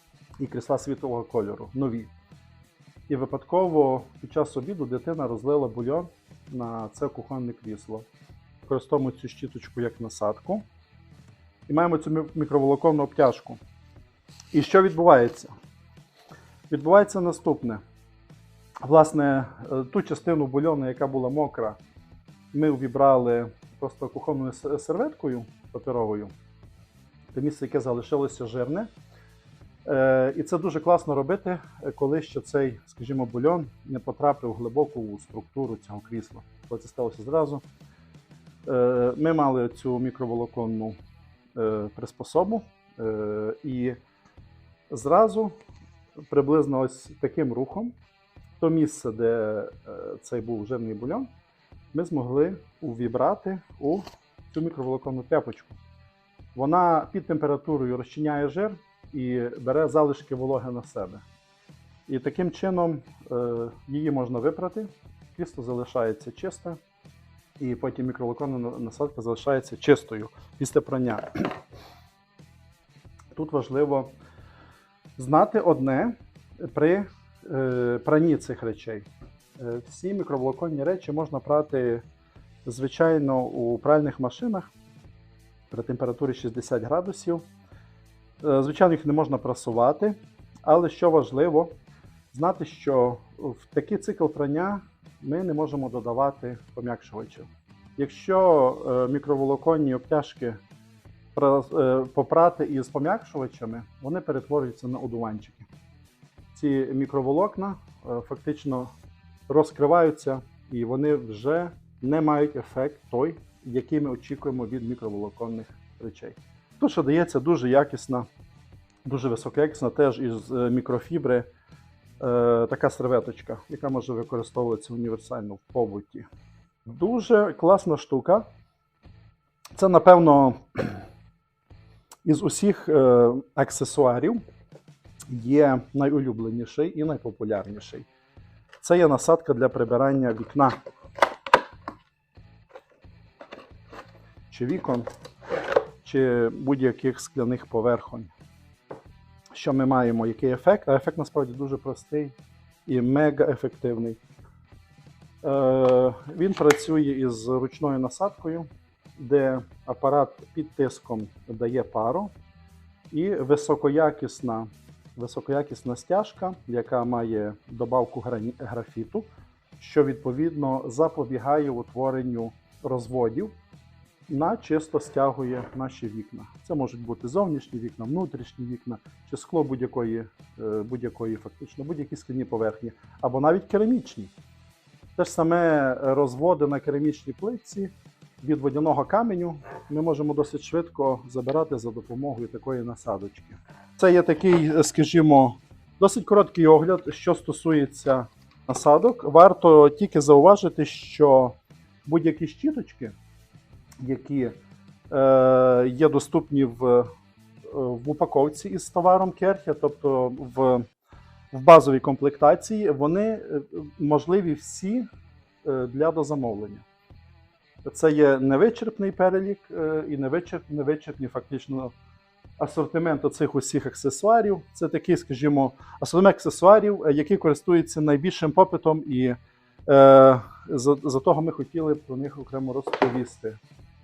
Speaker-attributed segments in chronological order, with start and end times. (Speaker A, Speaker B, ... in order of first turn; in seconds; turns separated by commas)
Speaker A: 0.4-2.1, Speaker A: 3.1-8.1, Speaker A: 8.7-10.6, Speaker A: 11.7-13.6, Speaker A: 14.5-15.5, Speaker A: 16.7-17.8, Speaker A: 18.8-21.8, Speaker A: 22.5-26.3, Speaker A: 27.3-28.9, Speaker A: 29.9-37.6, Speaker A: 38.7-41.0, Speaker A: 41.5-44.0, Speaker A: 44.9-45.6, Speaker A: 46.3-47.9, Speaker A: 48.6-51.3, Speaker A: 51.9-55.8, Speaker A: 56.5-61.2, Speaker A: 62.1-66.8, Speaker A: 67.6-71.5, Speaker A: 73.3-74.1, Speaker A: 75.2-82.0, Speaker A: 82.7-84.7, Speaker A: 85.7-87.5, Speaker A: 88.4-91.7, Speaker A: 92.3-100.6, Speaker A: 101.3-105.7, Speaker A: 106.5-108.9, Speaker A: 109.5-118.3, Speaker A: 119.0-121.5, Speaker A: 122.2-126.3, Speaker A: 126.9-128.4, Speaker A: 129.8-131.0, Speaker A: 132.2-134.4, Speaker A: 135.3-138.1, Speaker A: 138.8-140.8, Speaker A: 144.5-145.1, Speaker A: 146.0-148.3, Speaker A: 149.6-152.3, Speaker A: 152.9-154.2, Speaker A: 155.4-158.7, Speaker A: 159.2-162.3, Speaker A: 163.1-173.5, Speaker A: 174.3-184.3, Speaker A: 185.2-203.2, Speaker A: 204.0-204.6, Speaker A: 205.1-207.1, Speaker A: 207.7-210.9, Speaker A: 211.5-215.1, Speaker A: 215.6-216.8, Speaker A: 217.8-221.9, Speaker A: 222.6-233.6